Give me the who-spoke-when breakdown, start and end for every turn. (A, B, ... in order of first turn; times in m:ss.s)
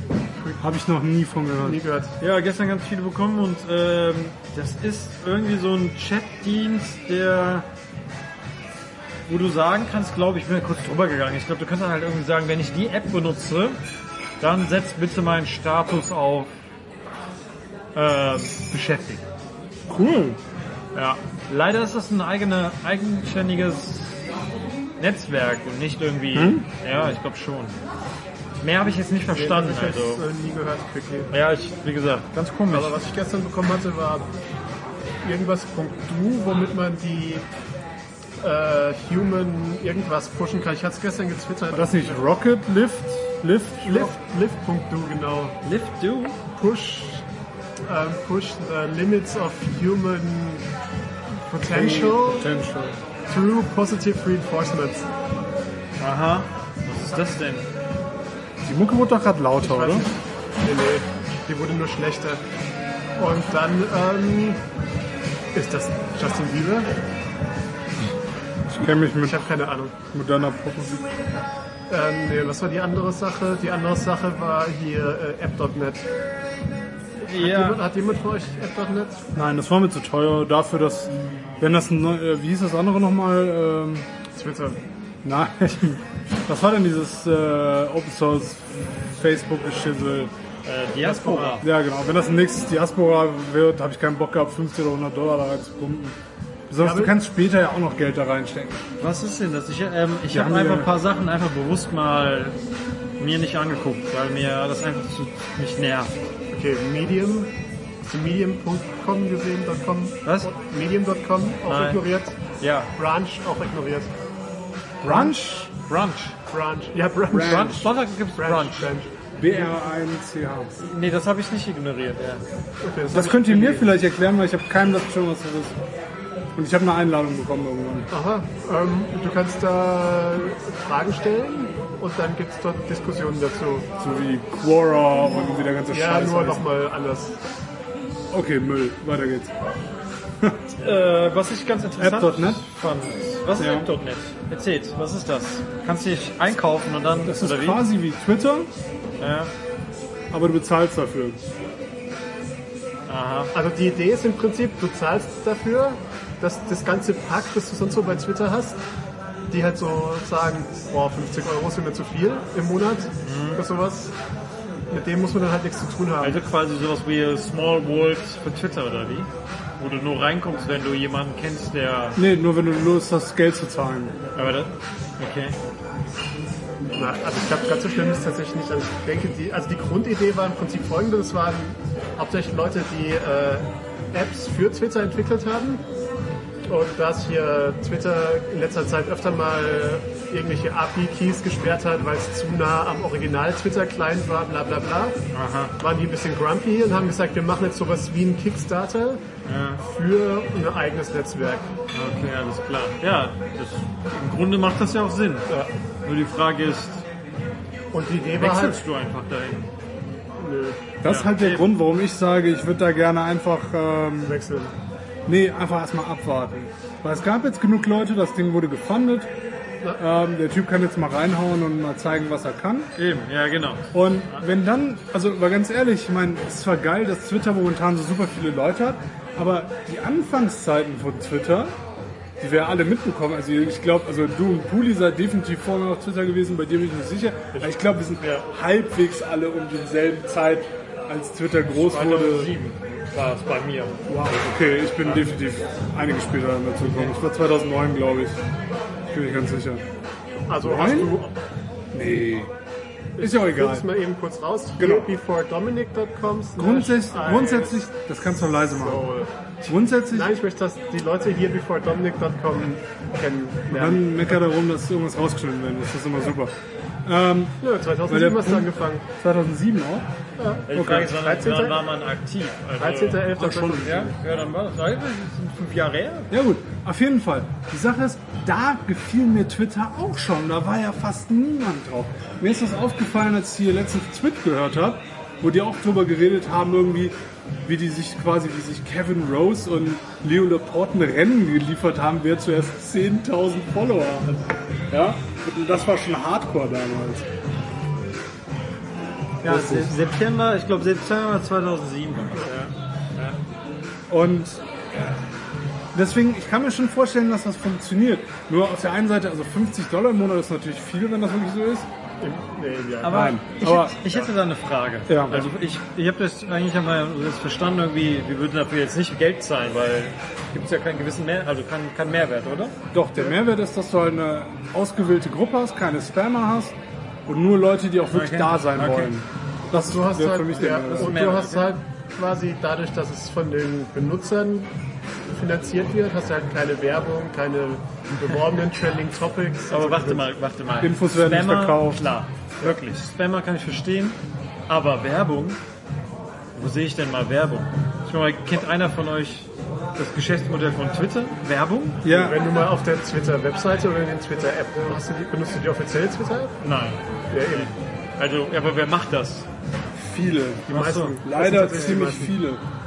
0:00.4-0:00.6 A
0:00.6-0:01.8 B
0:01.6-0:02.2 A
0:02.2-0:07.7 C
0:09.3-0:13.8 C
0:14.4-0:16.5 C
0:17.9-0:19.2 C
0:19.9-0:20.4 B
0:20.9-0:24.3 C
0:25.0-0:27.8 C
0:26.3-0:26.7 B
0:28.6-0:30.2 C
0:29.3-0:31.3 A
0:31.3-0:33.0 C
0:32.7-0:34.2 A
0:35.2-0:37.4 A
0:38.4-0:42.2 A
0:41.7-0:44.1 B
0:43.8-0:45.6 A
0:45.6-0:46.4 C
0:46.5-0:47.2 A
0:47.9-0:50.6 A
0:51.4-0:52.4 A
0:51.6-0:53.0 B
0:53.3-0:55.1 A
0:56.0-0:57.7 C
0:58.6-1:00.1 B
0:59.6-1:02.4 A
1:03.2-1:04.6 A
1:05.5-1:06.9 A
1:08.7-1:09.4 B
1:09.2-1:10.0 A
1:10.1-1:11.0 B
1:11.9-1:16.1 A
1:17.2-1:17.8 C
1:17.4-1:19.2 A
1:19.3-1:24.1 B
1:24.3-1:24.8 A
1:25.2-1:30.3 B
1:30.6-1:31.7 C
1:31.0-1:31.6 A
1:31.6-1:36.2 B
1:36.7-1:38.8 B
1:36.8-1:37.1 A
1:39.0-1:42.6 C
1:40.3-1:40.9 B
1:43.2-1:46.1 C
1:46.5-1:52.4 A
1:51.6-1:52.0 C
1:52.6-1:52.9 C
1:52.9-1:54.1 A
1:55.0-1:55.6 B
1:55.0-1:56.4 C
1:56.5-1:59.1 A
1:57.3-1:58.9 C
1:57.3-1:57.8 B
1:59.4-2:00.8 B
2:00.8-2:02.4 C
2:02.8-2:03.4 A
2:03.1-2:05.8 B
2:03.1-2:03.9 C
2:06.6-2:08.1 B
2:08.1-2:13.9 A
2:14.0-2:16.6 B
2:15.9-2:17.4 A
2:18.3-2:19.5 B
2:20.8-2:27.8 C
2:22.0-2:22.6 B
2:23.6-2:23.9 B
2:27.2-2:28.7 B
2:29.2-2:29.5 C
2:30.3-2:31.4 B
2:33.1-2:33.5 C
2:33.5-2:38.8 A
2:39.5-2:44.1 A
2:43.2-2:43.6 C
2:44.9-2:46.4 A
2:46.2-2:52.2 C
2:52.2-2:54.2 B
2:54.3-2:55.6 C
2:56.9-3:05.8 A
3:06.6-3:15.2 A
3:15.3-3:15.8 C
3:15.8-3:19.2 A
3:19.4-3:19.8 C
3:19.8-3:21.7 A
3:21.9-3:25.5 C
3:26.0-3:27.0 C
3:27.9-3:28.8 A
3:28.4-3:29.7 C
3:30.4-3:30.9 A
3:31.0-3:34.4 B
3:31.0-3:31.7 C
3:34.2-3:34.7 A
3:35.2-3:39.3 B
3:40.0-3:42.9 B
3:43.0-3:44.4 C
3:43.9-3:51.7 B
3:52.4-4:02.5 B
3:57.6-3:58.4 A
4:01.7-4:04.0 C
4:04.1-4:08.4 B
4:09.1-4:09.8 B
4:10.5-4:11.4 A
4:10.6-4:11.2 B
4:11.9-4:12.5 B
4:13.2-4:17.9 A
4:13.2-4:13.9 B
4:14.8-4:15.1 B
4:16.6-4:19.0 B
4:18.6-4:24.2 A
4:19.6-4:20.3 B
4:23.7-4:30.1 B
4:27.6-4:29.0 A
4:30.4-4:31.9 A
4:30.7-4:36.3 C
4:30.8-4:31.1 B
4:32.8-4:34.1 A
4:36.3-4:54.3 B
4:54.9-4:57.3 B
4:59.4-5:03.4 C
4:59.4-5:00.0 B
5:04.1-5:05.1 B
5:05.9-5:11.9 B
5:12.2-5:13.3 A
5:13.0-5:22.8 C
5:13.0-5:14.0 B
5:15.1-5:15.4 B
5:22.9-5:31.2 B
5:28.1-5:29.1 C
5:29.8-5:34.7 A
5:30.8-5:31.7 C
5:35.3-5:40.3 A
5:39.7-5:45.6 C
5:40.8-5:42.1 B
5:46.5-5:52.0 C
5:52.0-5:52.4 B
5:52.1-5:56.6 A
5:56.6-5:59.5 C
5:57.3-5:57.7 A
5:59.9-6:02.6 B
6:00.7-6:02.4 A
6:00.7-6:01.2 C